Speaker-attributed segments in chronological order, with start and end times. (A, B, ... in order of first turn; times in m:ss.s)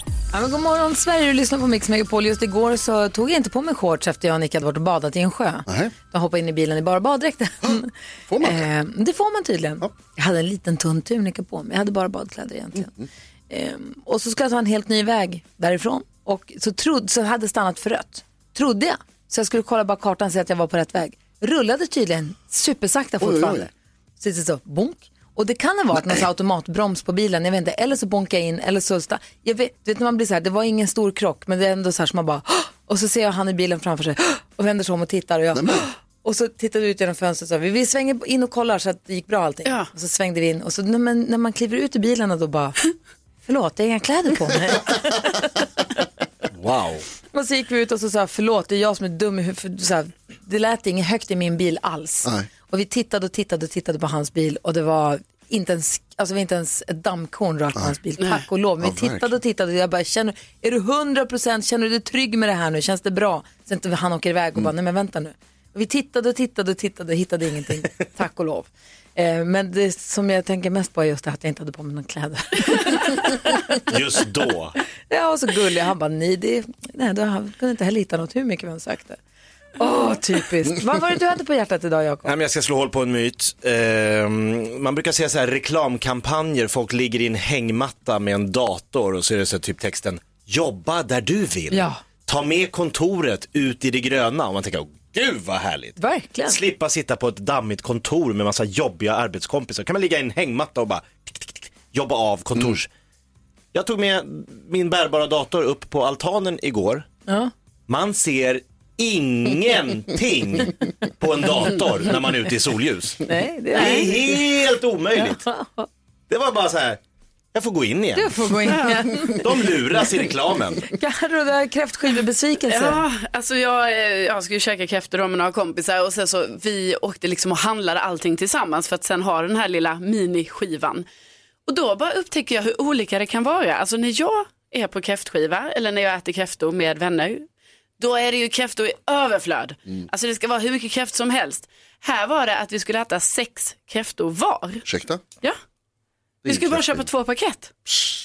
0:00.3-0:12.9 A
0:05.7-0:05.9 B
0:07.6-0:08.7 B
0:13.5-0:42.8 A
0:23.2-0:23.7 B
0:35.5-0:35.9 B
0:43.5-0:45.5 A
0:46.5-0:47.0 C
0:47.3-1:13.8 A
0:58.8-0:59.3 B
1:13.9-1:14.8 C
1:15.1-1:19.2 A
1:19.8-1:22.3 A
1:22.2-1:42.9 C
1:31.7-1:32.0 A
1:36.0-1:36.6 A
1:43.7-1:47.0 C
1:47.3-1:47.5 A
1:47.9-1:55.4 C
1:53.3-1:54.4 A
1:55.4-1:55.9 A
1:56.3-1:57.0 C
1:57.5-1:58.8 C
1:58.1-1:59.4 A
1:59.4-2:00.9 C
2:00.9-2:03.0 A
2:02.7-2:11.1 D
2:11.7-2:17.5 D
2:18.0-2:24.8 D
2:24.8-2:25.2 B
2:26.4-2:27.1 B
2:26.5-2:27.8 D